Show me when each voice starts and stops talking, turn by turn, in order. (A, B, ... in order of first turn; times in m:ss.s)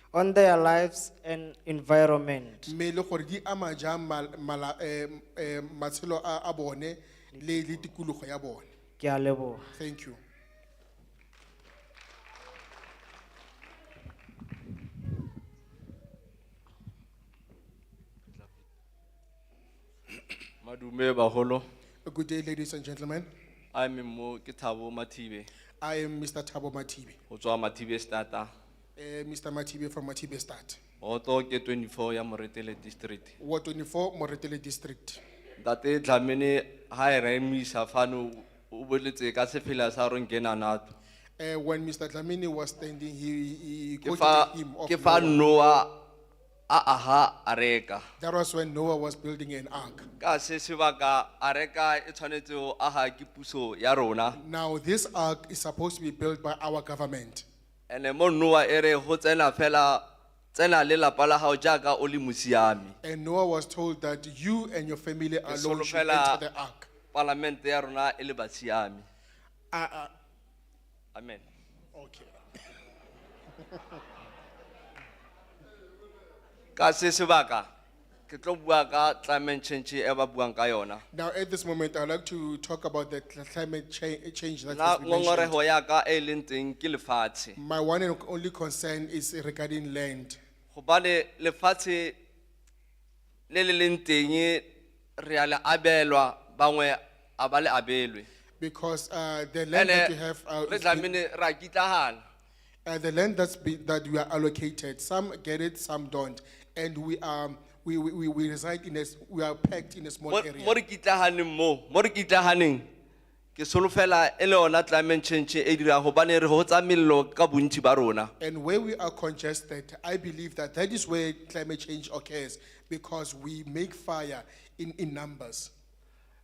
0:00.1-0:02.7 A
0:02.6-0:08.7 B
0:07.3-0:07.8 A
0:09.0-0:09.6 A
0:09.7-0:10.2 B
0:20.6-0:21.6 C
0:22.0-0:23.3 B
0:23.7-0:25.5 C
0:25.8-0:27.2 B
0:27.3-0:28.5 C
0:29.0-0:30.8 B
0:31.0-0:33.3 C
0:33.4-0:35.2 B
0:35.6-0:40.9 C
0:41.4-0:45.4 B
0:44.0-0:45.9 C
0:46.7-0:48.0 C
0:48.2-0:50.1 B
0:50.2-0:54.4 C
0:54.3-0:57.4 B
0:57.9-1:00.0 C
1:00.5-1:02.9 C
1:03.0-1:06.9 B
1:05.5-1:06.4 C
1:07.1-1:09.0 C
1:09.7-1:10.1 B
1:11.1-1:11.4 C
1:11.9-1:12.6 B
1:16.8-1:17.7 C
1:18.3-1:21.0 C
1:21.1-1:25.6 B
1:24.7-1:27.6 C
1:27.6-1:30.4 B
1:30.7-1:32.2 C
1:33.5-1:34.6 C
1:35.2-1:38.3 C
1:38.6-1:41.1 B
1:39.7-1:40.1 C
1:40.6-1:42.2 C
1:42.8-1:50.8 B
1:50.3-1:52.8 C
1:53.6-1:58.3 C
1:58.4-2:05.7 B